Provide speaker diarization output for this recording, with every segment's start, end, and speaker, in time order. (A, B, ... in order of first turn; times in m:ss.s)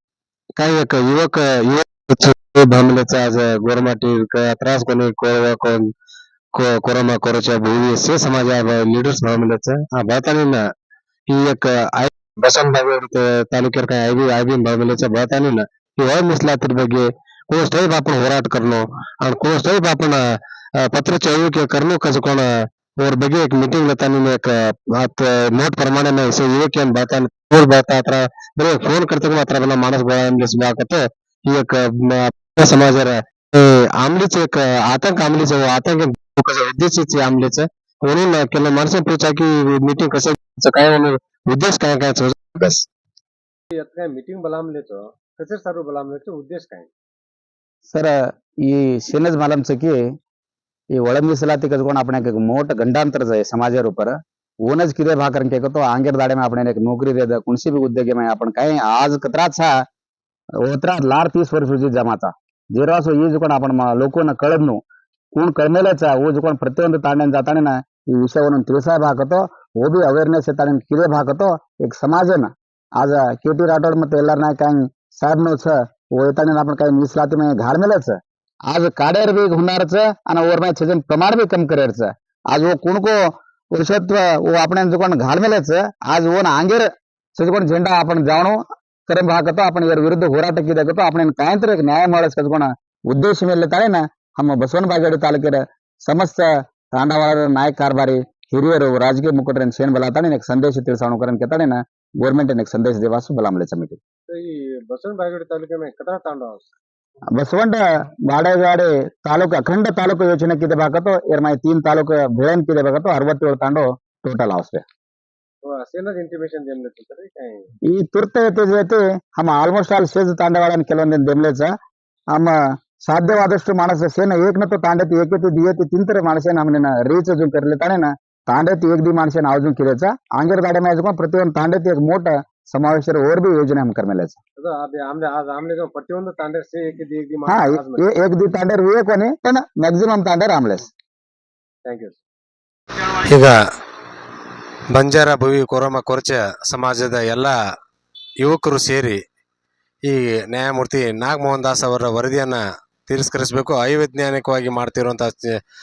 0:00.6-0:05.7 A
0:06.6-0:10.6 A
0:11.3-0:18.8 A
0:19.3-0:20.2 A
0:20.9-0:22.4 A
0:23.0-0:24.5 A
0:25.0-0:31.0 A
0:32.4-0:33.1 A
0:34.1-0:42.8 A
0:43.7-0:46.9 B
0:47.9-0:50.0 C
0:50.9-0:54.1 C
0:54.6-0:59.7 C
1:00.6-1:04.8 C
1:05.4-1:18.2 C
1:18.7-1:23.2 C
1:23.8-1:44.0 C
1:44.3-1:46.6 B
1:47.4-1:54.8 C
1:55.6-1:57.7 B
1:57.9-2:01.7 C
2:03.0-2:14.4 C
2:14.6-2:18.1 B
2:17.5-2:20.9 C
2:21.8-2:22.2 B
2:23.2-2:23.5 A
2:24.9-2:27.5 A
2:28.4-2:29.2 A
2:30.1-2:35.5 A